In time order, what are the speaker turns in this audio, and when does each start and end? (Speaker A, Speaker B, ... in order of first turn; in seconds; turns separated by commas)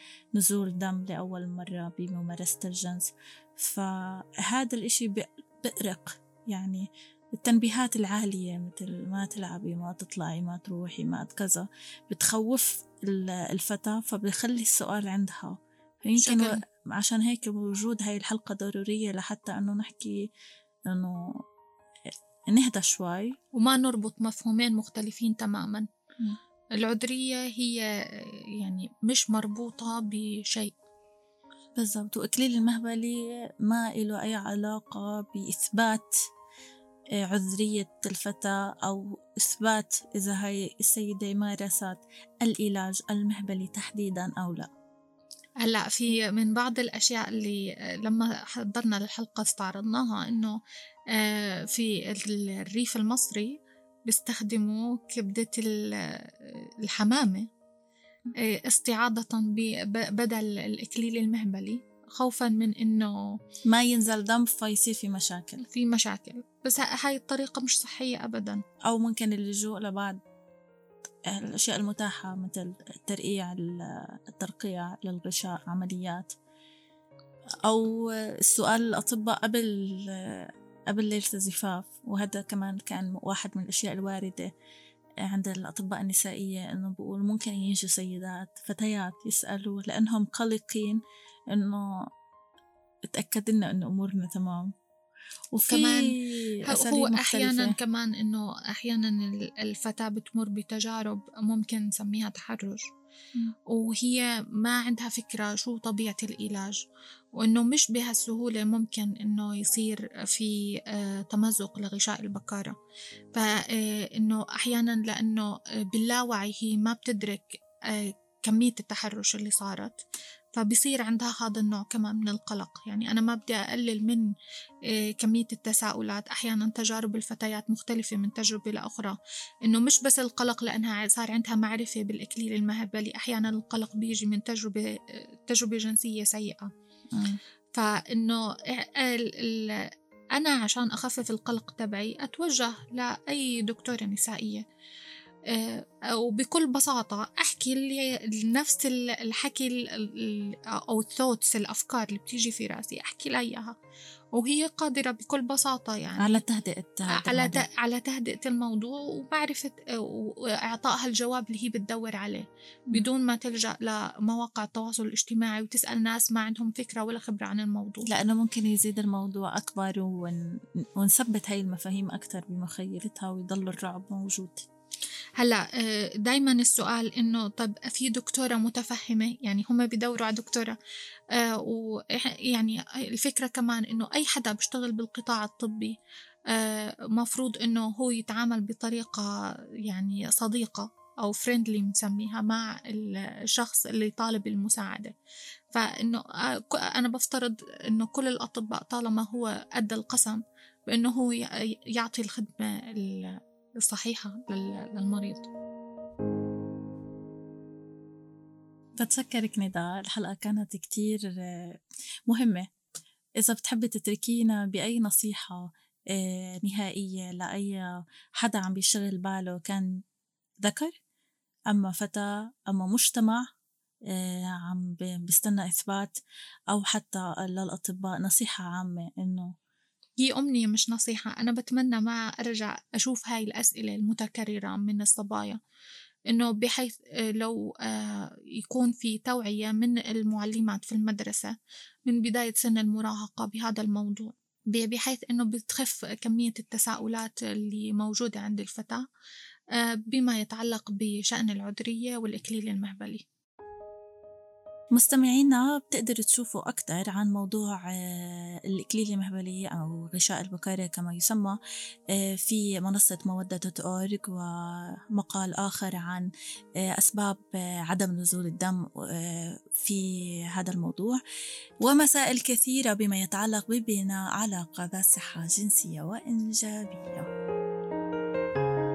Speaker A: 0.3-20.3, Speaker B: 16.1-16.6, Speaker A: 20.9-21.3, Speaker A: 22.5-23.4, Speaker B: 23.6-25.9, Speaker B: 26.8-30.7, Speaker A: 31.8-36.1, Speaker A: 37.1-44.7, Speaker B: 45.6-50.6, Speaker B: 51.1-53.5, Speaker B: 54.1-57.5, Speaker B: 58.4-63.4, Speaker A: 63.6-65.6, Speaker B: 65.6-68.6, Speaker A: 68.8-70.2, Speaker A: 71.2-76.3, Speaker A: 77.7-84.5, Speaker A: 85.2-91.0, Speaker A: 91.5-92.0, Speaker A: 93.1-94.7, Speaker A: 95.5-97.8, Speaker B: 95.7-102.9, Speaker B: 103.7-106.8, Speaker B: 107.3-112.7, Speaker B: 113.3-120.0, Speaker B: 120.5-124.3, Speaker B: 124.9-136.7, Speaker A: 137.1-137.4, Speaker B: 137.7-144.6, Speaker B: 145.5-153.7, Speaker B: 154.3-156.4, Speaker A: 156.2-157.7, Speaker B: 157.1-168.1, Speaker A: 168.1-170.4, Speaker A: 171.0-174.7, Speaker B: 175.4-180.8, Speaker B: 181.3-186.0, Speaker B: 186.5-195.1, Speaker B: 195.7-205.5, Speaker A: 209.0-212.7, Speaker A: 213.4-220.0, Speaker A: 220.6-220.9, Speaker A: 221.7-223.5, Speaker A: 224.1-226.2, Speaker A: 226.7-229.5, Speaker B: 230.2-235.6, Speaker B: 236.3-241.5, Speaker B: 242.1-249.0, Speaker B: 249.7-253.2, Speaker A: 254.9-261.6, Speaker A: 262.1-266.3, Speaker A: 266.8-271.2, Speaker A: 271.8-277.3